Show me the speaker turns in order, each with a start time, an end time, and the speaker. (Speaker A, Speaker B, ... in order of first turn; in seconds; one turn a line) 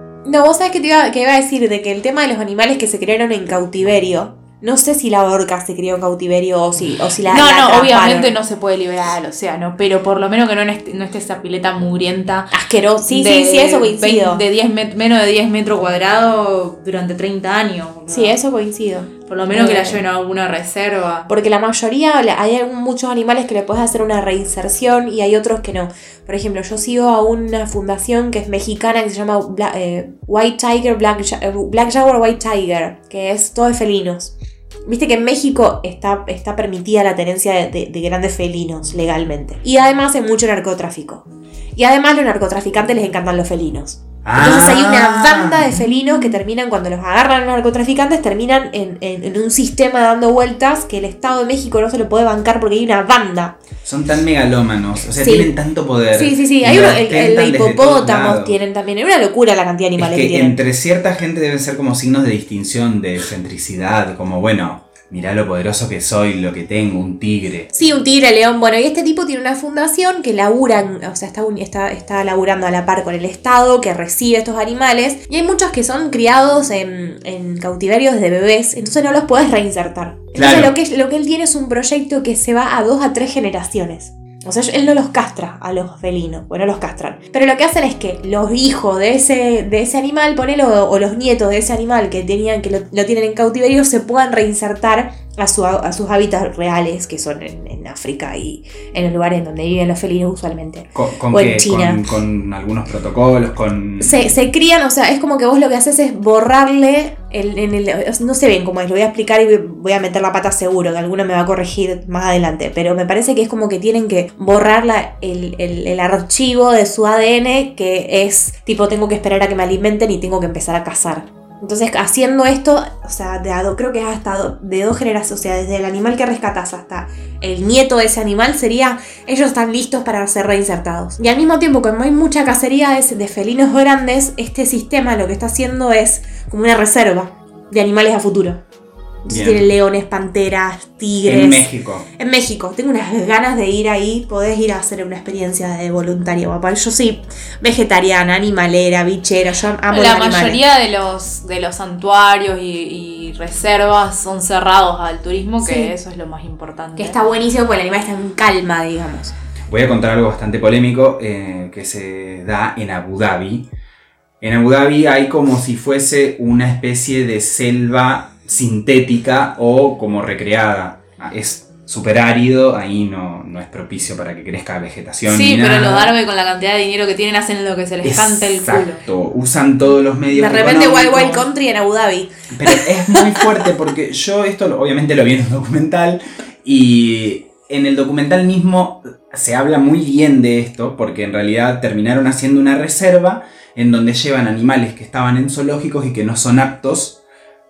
Speaker A: 0.2-8.3
Speaker B: 7.2-12.5
Speaker A: 12.5-14.4
Speaker B: 13.1-18.4
Speaker A: 18.1-20.0
Speaker B: 19.3-21.3
Speaker A: 21.3-34.3
Speaker A: 34.9-53.6
Speaker C: 44.2-45.7
Speaker C: 53.8-58.6
Speaker A: 55.2-55.5
Speaker A: 56.1-60.6
Speaker C: 60.0-67.7
Speaker A: 67.7-102.0
Speaker C: 80.3-80.7
Speaker C: 100.9-104.3
Speaker A: 104.0-138.6
Speaker A: 139.2-150.6
Speaker C: 139.3-139.7
Speaker C: 141.2-142.1
Speaker B: 149.9-157.2
Speaker A: 155.6-155.9
Speaker A: 157.0-159.3
Speaker C: 159.7-163.7
Speaker C: 164.4-176.1
Speaker B: 175.2-179.0
Speaker C: 178.0-181.5
Speaker A: 180.3-183.5
Speaker C: 182.5-197.2